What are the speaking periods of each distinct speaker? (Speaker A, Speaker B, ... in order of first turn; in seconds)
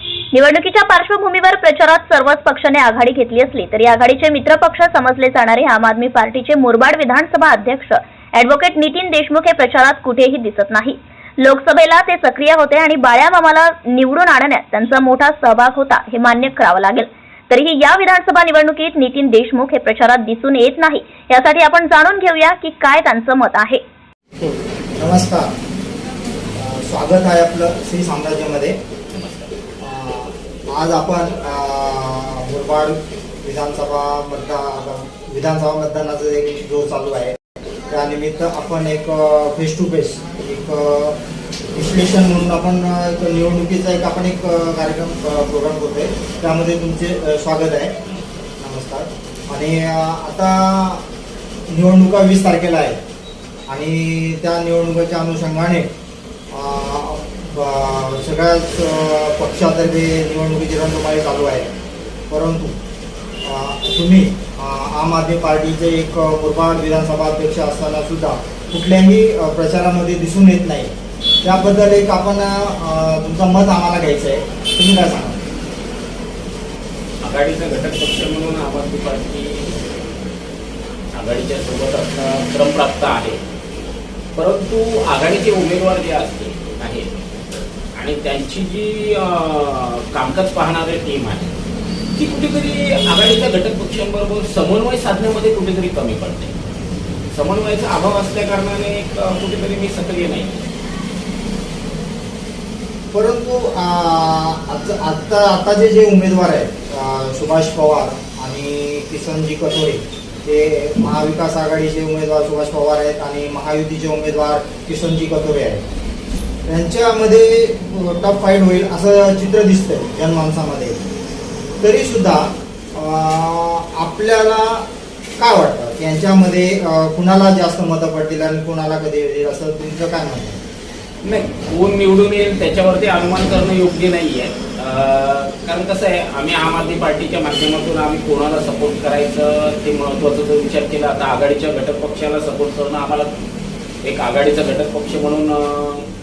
Speaker A: 0.2-23.8
Speaker B: 25.0-25.5, 26.6-28.8, 29.8-37.4, 37.9-41.2, 41.7-48.0, 48.6-51.0, 51.7-53.0, 53.7-55.9, 56.5-61.7, 62.3-62.8, 63.4-70.9, 71.4-75.4, 103.1-115.8, 116.7-121.0, 121.8-124.9, 125.4-130.6
Speaker C: 29.1-29.5, 77.2-79.7, 81.1-83.4, 84.4-87.4, 88.0-91.5, 92.2-96.5, 97.3-100.7, 131.2-143.3, 144.0-146.1